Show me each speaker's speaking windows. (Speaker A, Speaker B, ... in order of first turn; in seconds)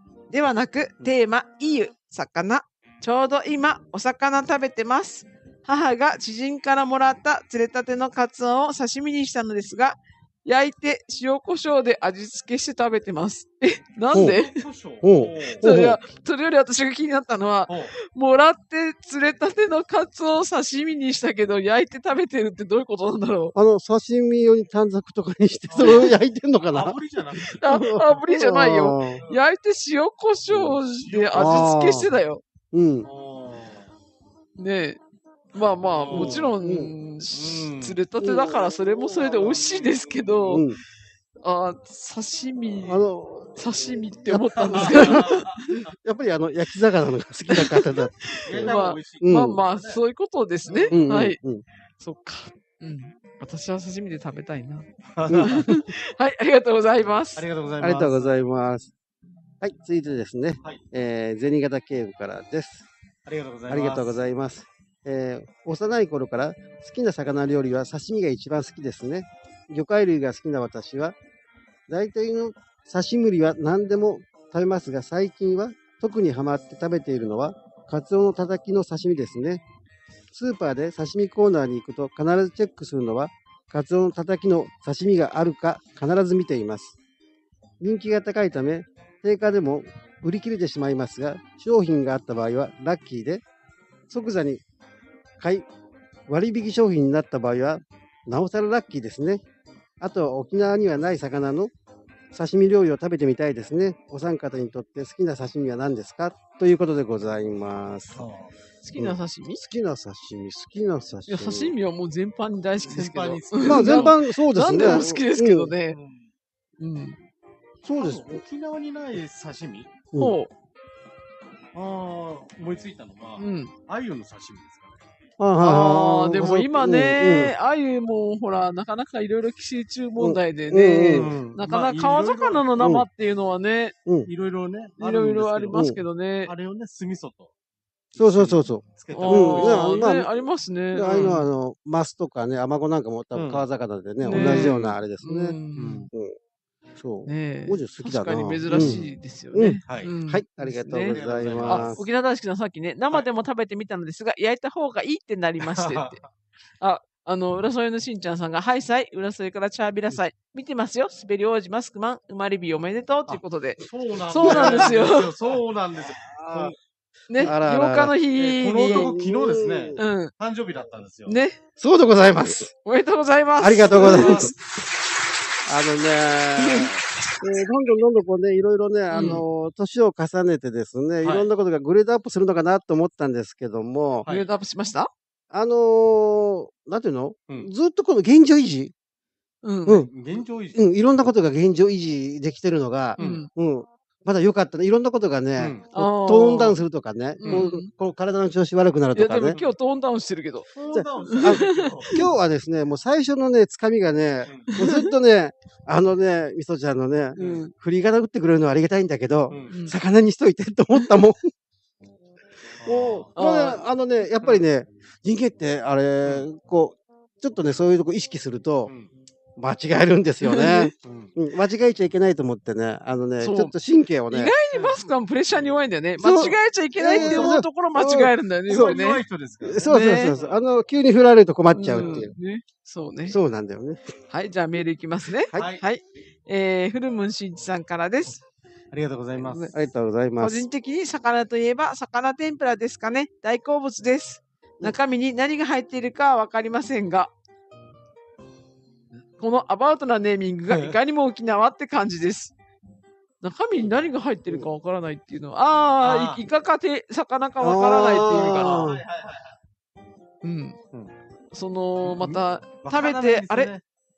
Speaker A: 0.3-14.6, 15.6-23.5, 25.8-26.1, 27.6-32.4, 34.6-35.0, 35.5-40.6, 41.4-43.0, 43.5-45.7, 47.5-51.4, 52.0-54.9, 55.4-57.4, 108.8-109.6, 111.3-116.0, 116.8-117.2, 120.2-120.5, 123.4-123.7, 125.6-133.9, 135.0-136.5, 139.1-141.5, 144.2-146.1, 147.3-156.2, 156.8-165.3, 167.3-169.1, 170.0-170.3, 171.3-171.6, 172.8-174.5, 176.6-176.9, 179.1-179.4, 184.3-185.1, 189.6-190.0, 193.2-193.5, 195.9-196.8, 197.4-197.9, 199.1-200.7, 201.3-202.2, 204.7-205.1, 207.4-207.7, 209.7-209.9, 213.3-213.8, 220.5-220.9, 223.4-223.7, 224.3-229.2, 229.8-230.3, 231.7-233.4, 234.3-238.4, 239.4-239.7, 240.4-247.3, 249.4-252.5, 253.4-258.9, 260.4-260.8, 261.5-263.7
Speaker B: 14.1-15.7, 17.7-17.9, 25.7-28.2, 29.1-29.4, 30.5-31.9, 33.0-33.9, 35.8-36.5, 37.3-38.0, 38.6-40.6, 44.7-45.6, 48.4-50.0, 50.6-51.0, 55.1-55.8, 57.4-58.3, 63.2-64.1, 108.1-108.5, 112.8-114.2, 114.7-115.1, 115.9-116.3, 118.0-119.9, 121.7-125.0, 131.1-132.9, 134.2-137.5, 138.1-140.1, 143.3-143.7, 144.2-145.0, 145.7-146.1, 148.7-149.0, 149.8-150.1, 151.0-152.1, 155.6-156.2, 163.3-166.8, 168.3-171.4, 173.9-174.6, 181.2-181.5, 190.1-190.8, 193.2-193.4, 195.6-195.9, 197.4-197.7, 200.7-202.3, 204.4-204.8, 207.4-207.6, 209.5-209.8, 212.8-213.3, 218.8-219.1, 221.0-221.3, 224.7-225.7, 227.1-227.6, 228.7-230.6, 231.9-232.3, 235.5-235.8, 238.9-239.7, 250.7-251.0, 256.0-256.4, 258.3-259.4, 262.0-263.8
Speaker C: 14.1-14.4, 15.0-16.0, 23.6-27.0, 27.5-29.2, 31.3-32.1, 32.7-33.1, 36.1-36.9, 38.2-38.5, 40.5-40.8, 42.9-43.6, 44.3-45.4, 46.0-49.6, 50.9-51.6, 55.3-55.6, 57.8-58.9, 59.6-62.9, 63.7-71.1, 71.9-79.6, 80.3-87.0, 87.8-93.4, 94.1-94.6, 95.4-95.7, 96.3-99.4, 100.0-101.7, 102.3-108.2, 109.0-111.7, 113.6-115.7, 117.8-118.4, 125.4-127.5, 130.2-131.3, 132.8-133.1, 134.1-134.3, 135.7-136.0, 138.2-140.3, 140.9-145.6, 147.0-152.0, 164.4-164.9, 166.2-166.7, 167.4-168.2, 168.8-170.0, 171.8-172.7, 173.6-174.5, 175.7-184.3, 185.5-188.9, 190.7-199.6, 200.9-211.5, 212.8-218.9, 219.6-224.5, 226.2-229.0, 229.6-232.3, 233.3-234.1, 239.7-240.7, 257.6-259.0